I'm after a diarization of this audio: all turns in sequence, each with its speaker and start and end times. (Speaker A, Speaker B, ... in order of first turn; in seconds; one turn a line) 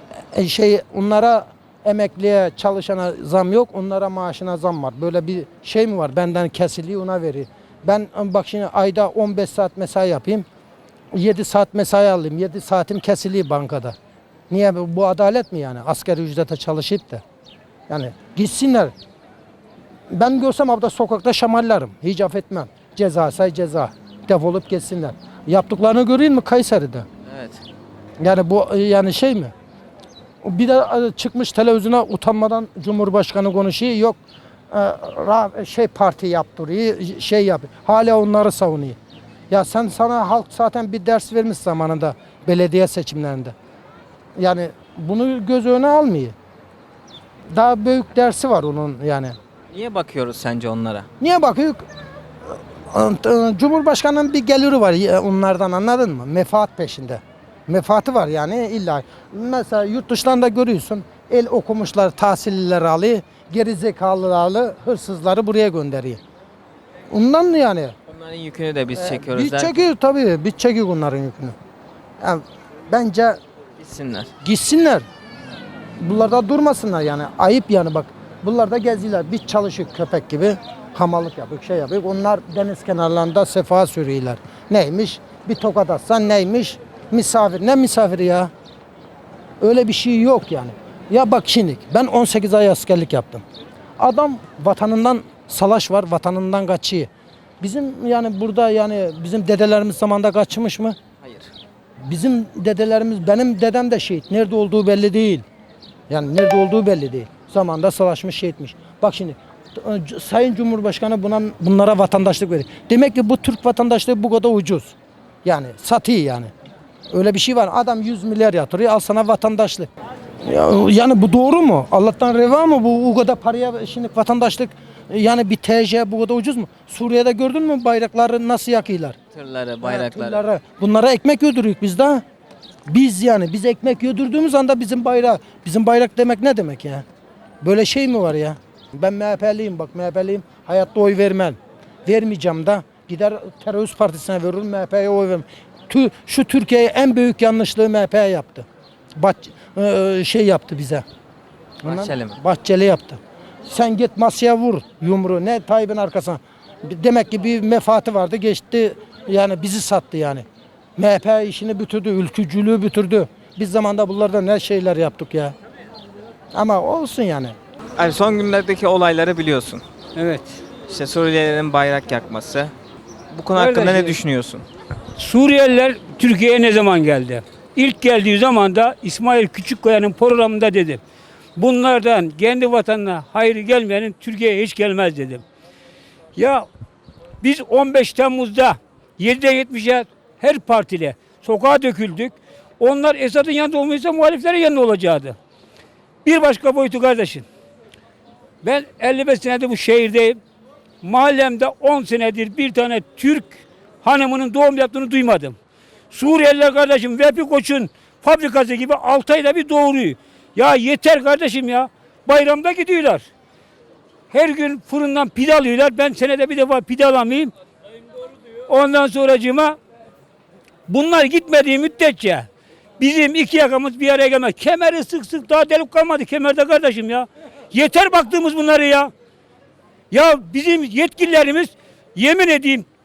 Speaker A: 0.3-10.4
Speaker A: 11.1-13.9
Speaker A: 14.5-17.2
Speaker A: 17.9-18.9
Speaker A: 20.1-27.1
Speaker B: 27.3-27.6
Speaker A: 28.2-29.5
Speaker A: 30.4-34.2
Speaker A: 34.7-39.0
Speaker A: 39.5-43.5
Speaker A: 44.4-46.3
Speaker A: 47.5-49.4
Speaker B: 49.7-51.1
Speaker A: 51.2-51.8
Speaker A: 52.5-66.2
Speaker A: 67.1-67.9
Speaker B: 68.1-69.9
Speaker A: 68.9-71.5
Speaker A: 72.2-73.4
Speaker B: 73.8-74.3
Speaker A: 74.4-75.0
Speaker A: 76.0-88.5
Speaker A: 89.6-93.4
Speaker A: 94.0-97.1
Speaker A: 97.6-101.0
Speaker B: 101.2-101.5
Speaker A: 102.0-105.4
Speaker A: 106.1-116.5
Speaker A: 117.1-119.9
Speaker A: 120.4-129.2
Speaker B: 129.3-130.4
Speaker A: 129.8-132.2
Speaker A: 132.9-137.0
Speaker A: 137.6-148.6
Speaker A: 149.2-151.0
Speaker B: 151.8-152.4
Speaker A: 151.8-160.4
Speaker A: 161.0-165.5
Speaker A: 166.5-167.6
Speaker B: 168.0-169.8
Speaker C: 170.2-170.5
Speaker B: 170.9-172.7
Speaker B: 173.3-174.6
Speaker D: 173.6-174.0
Speaker C: 173.6-174.1
Speaker C: 175.2-181.0
Speaker C: 181.6-185.4
Speaker C: 187.4-195.3
Speaker C: 196.2-197.4
Speaker C: 198.6-200.3
Speaker C: 201.1-203.4
Speaker D: 203.2-203.5
Speaker C: 204.1-205.5
Speaker D: 206.1-206.6
Speaker C: 206.6-211.9
Speaker D: 208.9-209.3
Speaker D: 212.3-213.1
Speaker C: 212.4-212.9
Speaker D: 214.3-215.6
Speaker C: 215.6-217.3
Speaker D: 216.5-217.5
Speaker D: 218.7-219.6
Speaker C: 219.2-219.6
Speaker D: 220.9-222.4
Speaker D: 223.0-226.0
Speaker C: 223.7-224.3
Speaker C: 226.0-227.2
Speaker D: 227.7-229.0
Speaker D: 230.1-232.8